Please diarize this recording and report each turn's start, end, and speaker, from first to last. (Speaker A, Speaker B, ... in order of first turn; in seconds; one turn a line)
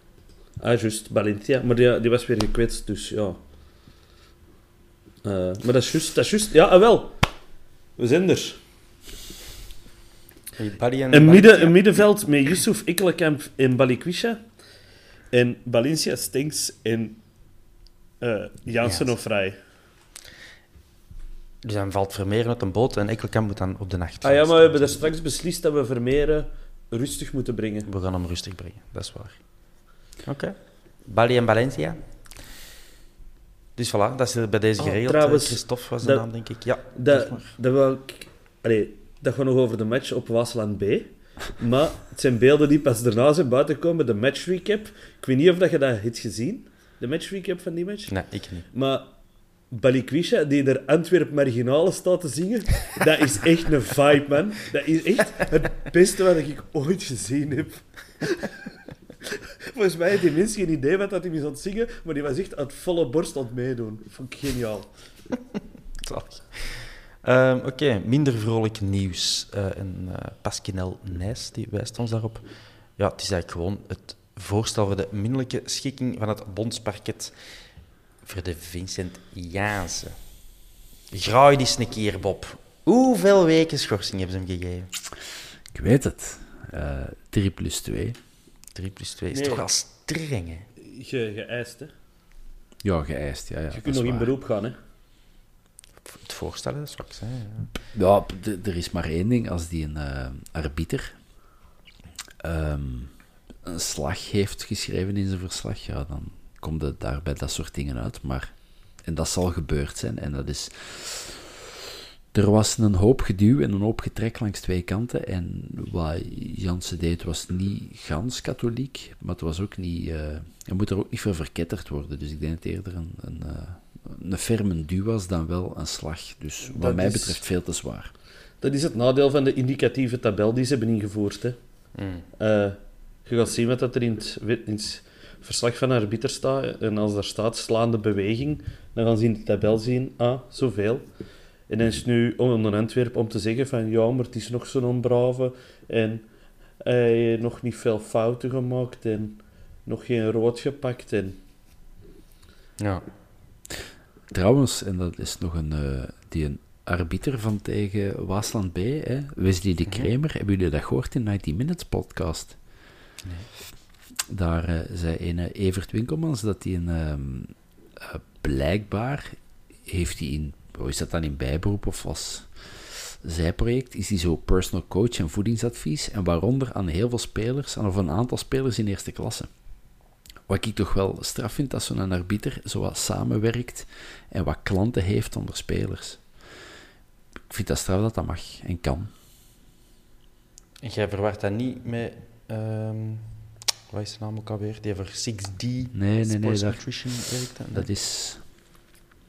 Speaker A: 0.6-3.4
Speaker A: 5.2-7.2
Speaker A: 8.0-8.6
Speaker B: 10.6-12.0
Speaker A: 11.1-14.4
Speaker A: 15.3-17.2
Speaker A: 18.2-19.6
Speaker B: 18.8-19.2
Speaker B: 21.6-25.1
Speaker A: 24.2-27.9
Speaker B: 27.9-29.4
Speaker B: 30.2-32.0
Speaker B: 33.8-37.5
Speaker A: 34.8-36.3
Speaker A: 36.9-48.2
Speaker B: 48.1-48.7
Speaker A: 48.7-49.1
Speaker A: 49.7-58.5
Speaker A: 59.7-64.9
Speaker B: 66.0-72.5
Speaker B: 73.0-77.3
Speaker B: 78.2-80.2
Speaker B: 81.1-84.9
Speaker C: 85.7-88.2
Speaker B: 88.7-90.7
Speaker A: 89.3-89.6
Speaker A: 90.8-91.9
Speaker C: 92.8-94.3
Speaker A: 93.7-94.8
Speaker B: 96.0-97.7
Speaker C: 97.9-101.1
Speaker C: 102.4-111.5
Speaker C: 112.3-128.1
Speaker A: 126.7-127.4
Speaker A: 128.6-131.6
Speaker B: 131.9-132.3
Speaker A: 132.4-141.1
Speaker A: 141.7-146.2
Speaker A: 146.8-151.4
Speaker B: 152.8-153.0
Speaker C: 154.3-162.6
Speaker B: 163.2-163.5
Speaker C: 164.3-179.5
Speaker C: 180.5-186.6
Speaker C: 187.5-189.1
Speaker B: 190.8-193.3
Speaker B: 193.9-197.9
Speaker C: 195.9-198.8